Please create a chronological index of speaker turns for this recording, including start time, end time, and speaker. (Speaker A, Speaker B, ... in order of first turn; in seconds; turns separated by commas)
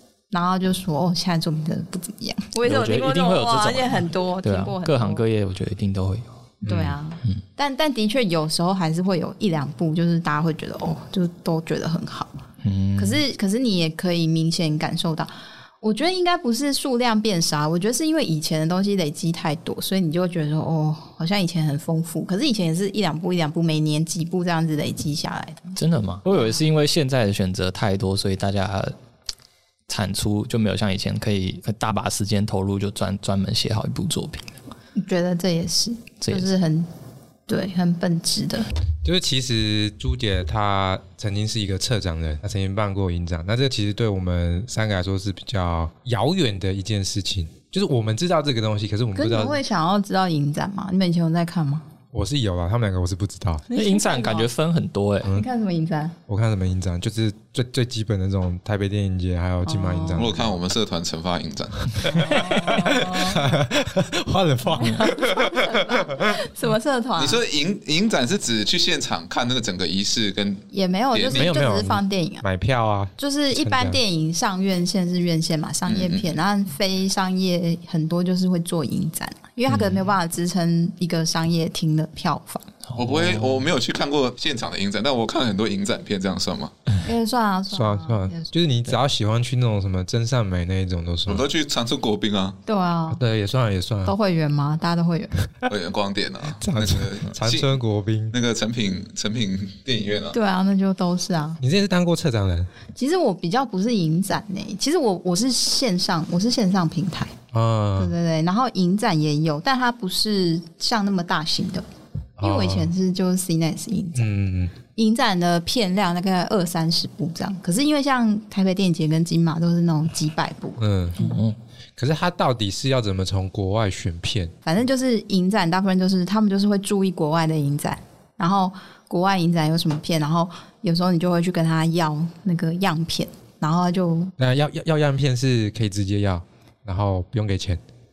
Speaker A: 0.3-5.2, Speaker B: 2.6-6.3, Speaker A: 6.6-12.3, Speaker C: 6.7-7.0, Speaker B: 12.6-13.2, Speaker A: 13.0-15.3, Speaker A: 15.8-25.8, Speaker B: 25.8-28.9, Speaker A: 26.3-26.6, Speaker B: 29.9-34.5, Speaker A: 35.0-36.9, Speaker B: 36.2-36.5, Speaker A: 37.5-38.7, Speaker C: 39.0-49.6, Speaker A: 49.1-51.9, Speaker C: 52.1-53.6, Speaker A: 53.7-54.5, Speaker B: 53.7-55.4, Speaker A: 55.3-56.2, Speaker C: 56.3-60.6, Speaker A: 59.6-60.3, Speaker D: 60.2-62.4, Speaker C: 62.0-66.4, Speaker A: 62.1-63.6, Speaker A: 64.8-67.4, Speaker D: 67.2-71.5, Speaker A: 70.7-72.4, Speaker C: 71.3-74.0, Speaker A: 73.2-82.7, Speaker D: 75.9-76.3, Speaker B: 82.9-83.7, Speaker D: 83.0-86.8, Speaker A: 87.0-88.5, Speaker C: 87.7-91.5, Speaker D: 91.3-92.6, Speaker A: 92.7-93.2, Speaker C: 93.1-94.1, Speaker A: 94.0-95.3, Speaker D: 95.7-97.7, Speaker C: 96.6-98.3, Speaker D: 98.3-100.3, Speaker A: 100.3-101.6, Speaker C: 101.6-102.7, Speaker A: 103.0-107.3, Speaker C: 107.5-108.1, Speaker A: 108.0-111.9, Speaker C: 112.4-112.9, Speaker A: 112.4-114.3, Speaker C: 114.2-114.7, Speaker A: 114.9-120.8, Speaker C: 120.8-121.3, Speaker B: 121.2-121.6, Speaker C: 122.0-124.5, Speaker A: 124.7-134.3, Speaker C: 134.4-137.8